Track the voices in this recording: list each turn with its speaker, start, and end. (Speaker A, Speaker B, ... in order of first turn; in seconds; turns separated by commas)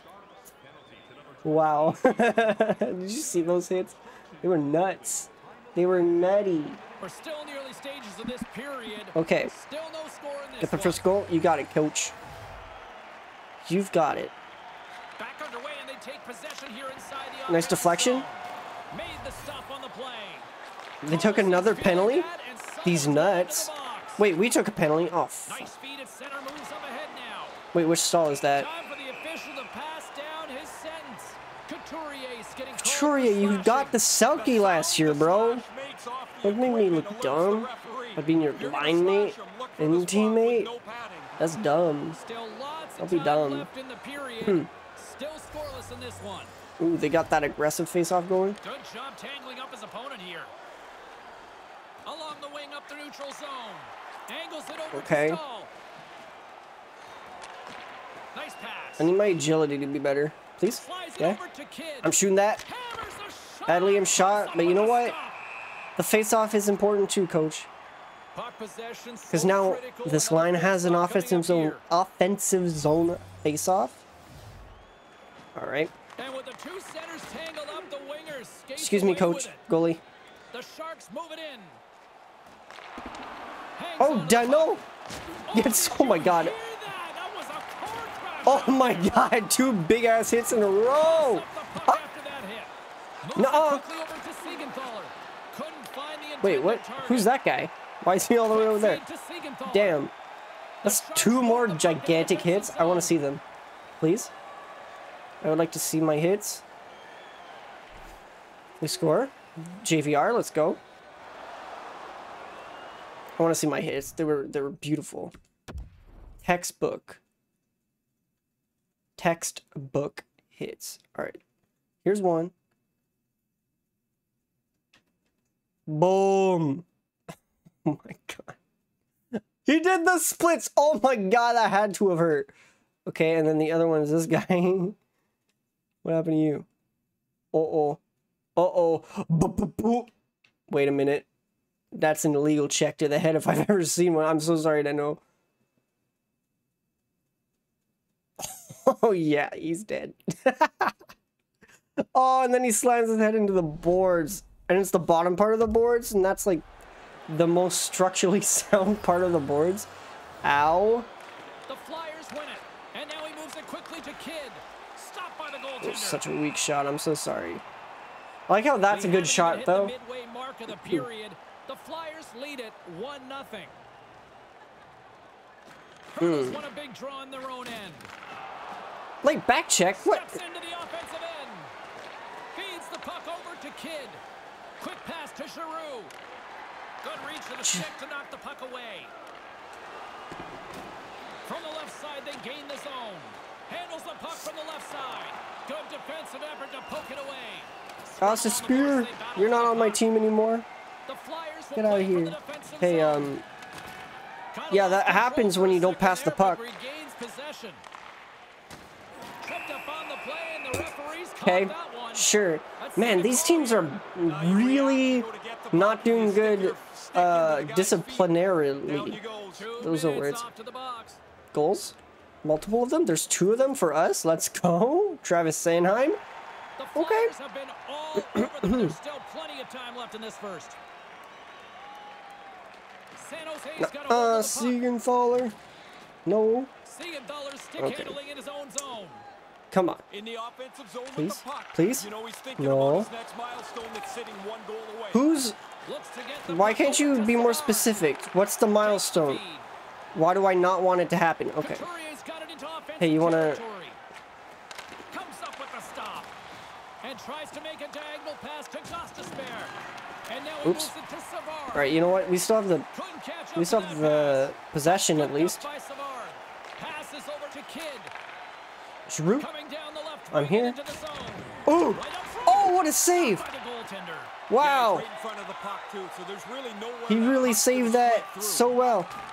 Speaker A: 0.7-1.4, Speaker B: 1.4-6.8, Speaker C: 7.0-11.1, Speaker B: 9.1-9.5, Speaker B: 10.6-12.1, Speaker B: 13.6-14.3, Speaker C: 15.2-20.5, Speaker B: 17.5-18.3, Speaker B: 21.0-22.3, Speaker C: 21.1-24.2, Speaker B: 22.8-25.6, Speaker C: 25.4-27.6, Speaker B: 27.7-28.7, Speaker C: 28.5-34.0, Speaker B: 32.8-35.6, Speaker A: 34.3-41.4, Speaker B: 36.4-40.7, Speaker B: 41.4-42.2, Speaker C: 42.1-46.5, Speaker B: 43.0-43.7, Speaker B: 44.4-44.7, Speaker B: 46.8-48.6, Speaker C: 48.6-50.5, Speaker C: 52.0-55.7, Speaker B: 54.9-55.4, Speaker C: 58.3-59.1, Speaker B: 59.0-61.4, Speaker C: 60.7-65.4, Speaker B: 62.0-62.6, Speaker B: 63.7-65.2, Speaker B: 66.0-67.7, Speaker C: 68.3-71.8, Speaker B: 69.3-74.0, Speaker B: 75.5-75.9, Speaker C: 76.2-79.6, Speaker B: 78.8-80.0, Speaker C: 80.5-81.8, Speaker C: 83.7-84.8, Speaker B: 84.0-84.8, Speaker C: 85.4-89.4, Speaker B: 85.5-86.5, Speaker B: 88.4-92.0, Speaker C: 90.9-92.7, Speaker C: 93.2-97.3, Speaker B: 93.3-93.8, Speaker B: 96.4-99.0, Speaker C: 98.5-100.0, Speaker B: 99.7-100.1, Speaker C: 100.8-103.1, Speaker B: 100.8-103.4, Speaker B: 104.0-104.3, Speaker B: 105.4-106.6, Speaker B: 108.8-110.8, Speaker B: 113.4-115.3, Speaker B: 116.4-117.2, Speaker B: 119.2-121.4, Speaker B: 122.0-122.5, Speaker B: 125.9-126.9, Speaker B: 127.8-128.6, Speaker B: 129.3-132.5, Speaker B: 133.1-135.0, Speaker B: 136.0-136.7, Speaker B: 137.5-138.0, Speaker B: 138.6-140.1, Speaker B: 140.7-141.3, Speaker B: 141.9-145.2, Speaker B: 148.4-151.0, Speaker B: 152.0-156.6, Speaker B: 157.3-159.9, Speaker B: 160.4-161.1, Speaker C: 161.7-166.2, Speaker B: 165.8-167.6, Speaker B: 168.5-169.9, Speaker C: 168.9-173.7, Speaker B: 170.7-171.1, Speaker C: 176.1-178.1, Speaker B: 176.2-176.6, Speaker B: 179.2-180.4, Speaker C: 179.9-181.7, Speaker C: 182.5-184.2, Speaker C: 184.8-186.1, Speaker C: 187.0-189.1, Speaker C: 191.4-200.0, Speaker B: 198.2-200.7, Speaker C: 201.1-203.3, Speaker B: 201.8-203.4, Speaker C: 204.5-207.8, Speaker B: 204.7-206.6, Speaker C: 209.4-214.0, Speaker B: 211.4-219.2, Speaker A: 214.2-219.7, Speaker C: 219.6-221.2, Speaker B: 219.8-220.4, Speaker B: 221.5-226.2, Speaker C: 226.8-230.8, Speaker B: 226.9-227.3, Speaker B: 228.2-228.9, Speaker C: 233.2-234.8, Speaker B: 233.8-235.6, Speaker B: 236.2-236.7, Speaker C: 236.8-239.2, Speaker B: 237.8-238.2, Speaker B: 239.7-240.0, Speaker A: 240.1-245.2, Speaker B: 241.2-243.1, Speaker B: 245.1-245.6, Speaker C: 245.8-248.1, Speaker B: 246.5-249.4, Speaker C: 248.8-249.7, Speaker B: 250.1-251.8, Speaker C: 251.6-254.0, Speaker B: 253.0-253.6, Speaker C: 255.1-256.3, Speaker C: 257.0-259.7, Speaker C: 260.3-262.1, Speaker B: 260.6-260.9, Speaker B: 261.7-262.9, Speaker C: 262.9-268.1, Speaker B: 263.6-265.6, Speaker B: 269.1-269.5, Speaker C: 269.4-274.4, Speaker B: 270.3-270.8, Speaker B: 271.6-273.4, Speaker B: 274.5-275.1, Speaker A: 274.6-278.7, Speaker B: 277.1-279.1